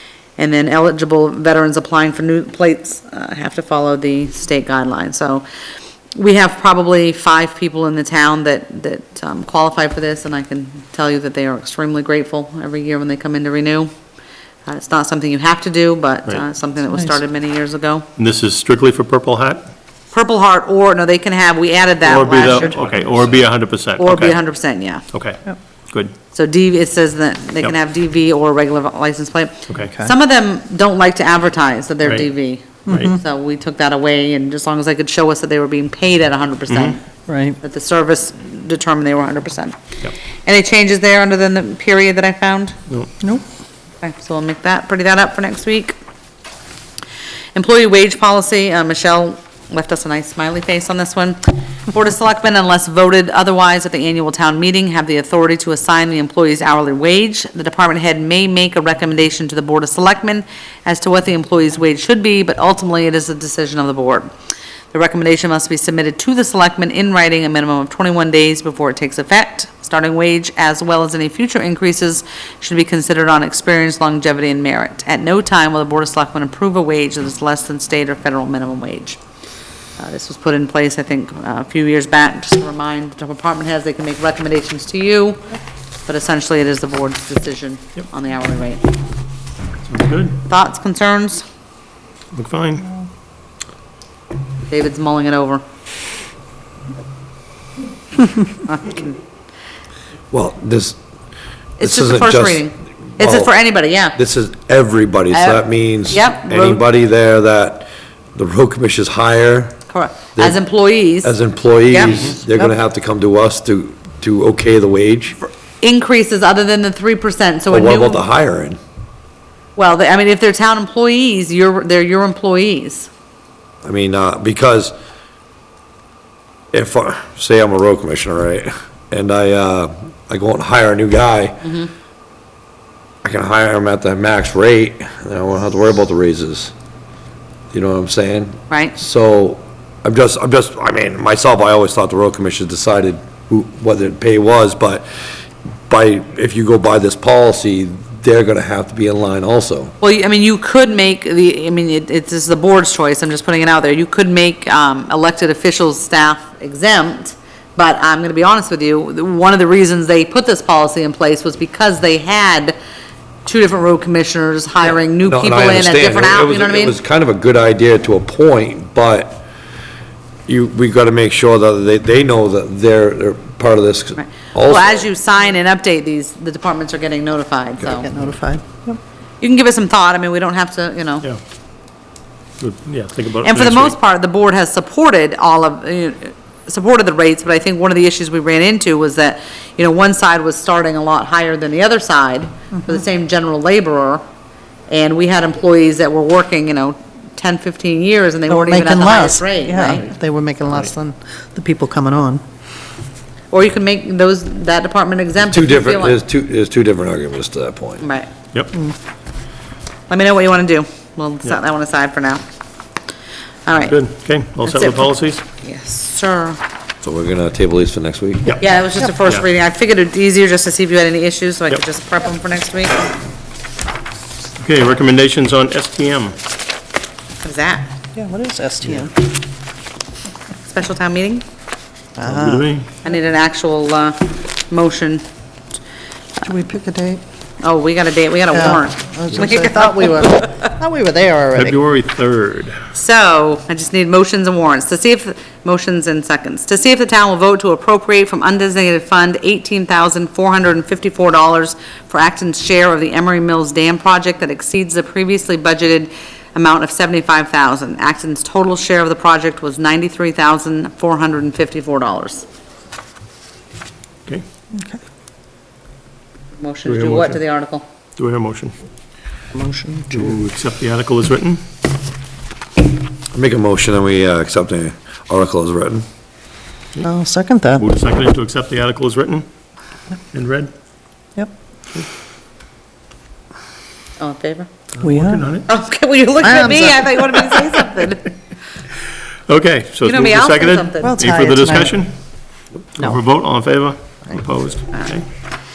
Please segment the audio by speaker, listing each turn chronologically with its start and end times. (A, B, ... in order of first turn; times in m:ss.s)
0:00.4-0:05.4 A
0:06.2-0:13.9 A
0:14.6-0:18.0 A
0:18.2-0:19.7 B
0:20.1-0:22.7 A
0:22.0-0:24.4 B
0:24.0-0:25.0 A
0:25.1-0:25.4 B
0:26.3-0:37.0 A
0:29.8-0:30.1 C
0:32.8-0:33.2 C
0:36.7-0:37.0 B
0:37.3-0:37.6 C
0:37.6-0:39.8 A
0:40.4-0:42.8 A
0:44.0-0:46.0 A
0:47.5-1:04.3 A
1:04.9-1:19.2 A
1:20.0-1:25.5 A
1:26.1-1:28.8 A
1:29.8-1:30.4 B
1:30.4-1:31.4 A
1:32.3-1:32.9 B
1:34.7-1:35.6 A
1:38.5-1:39.2 A
1:40.3-1:41.0 D
1:41.8-1:44.2 A
1:41.8-1:43.5 D
1:44.1-1:49.8 D
1:45.3-1:45.6 A
1:46.1-1:46.8 A
1:49.9-1:51.3 A
1:51.2-1:55.4 D
1:51.9-1:52.2 A
1:55.8-1:58.2 A
1:57.7-1:58.8 D
1:59.8-2:03.1 A
2:03.8-2:04.9 D
2:06.7-2:11.7 D
2:11.6-2:11.9 A
2:13.2-2:16.7 D
2:17.7-2:25.1 D
2:18.7-2:19.0 A
2:25.9-2:29.9 D
2:30.0-2:42.7 A
2:43.4-2:47.0 A
2:44.9-2:49.4 D
2:50.5-2:55.1 D
2:54.2-2:58.1 A
2:57.8-2:59.0 C
2:59.4-3:01.2 A
3:02.6-3:03.9 B
3:03.4-3:14.2 A
3:14.9-3:20.1 A
3:18.5-3:22.4 C
3:23.5-3:26.2 A
3:25.4-3:28.0 D
3:28.0-3:28.3 A
3:30.1-3:32.4 A
3:33.6-3:34.0 A
3:33.8-3:35.4 B
3:34.6-3:36.6 A
3:37.0-3:38.6 D
3:38.6-3:43.1 A
3:44.6-3:46.4 B
3:47.4-3:47.9 A
3:48.1-3:49.1 C
3:50.6-3:51.4 A
3:52.2-3:52.7 C
3:52.2-3:52.9 B
3:53.0-3:55.2 A
3:56.4-3:57.2 C
3:57.6-4:00.6 A
3:58.5-4:01.8 C
4:01.5-4:02.8 B
4:02.9-4:22.4 A
4:24.7-4:25.0 C
4:26.5-4:27.8 A
4:26.9-4:27.4 B
4:28.2-4:28.7 B
4:29.5-4:30.4 C
4:30.1-4:31.6 B
4:33.3-4:36.0 D
4:37.0-4:37.9 C
4:37.8-4:39.4 B
4:40.3-4:40.7 B
4:44.2-4:44.7 A
4:45.0-4:45.7 B
4:45.0-4:45.5 C
4:45.6-4:48.3 A
4:46.4-4:47.6 C
4:49.5-4:52.1 B
4:50.0-4:51.2 A
4:51.0-4:51.9 C
4:52.9-4:55.2 B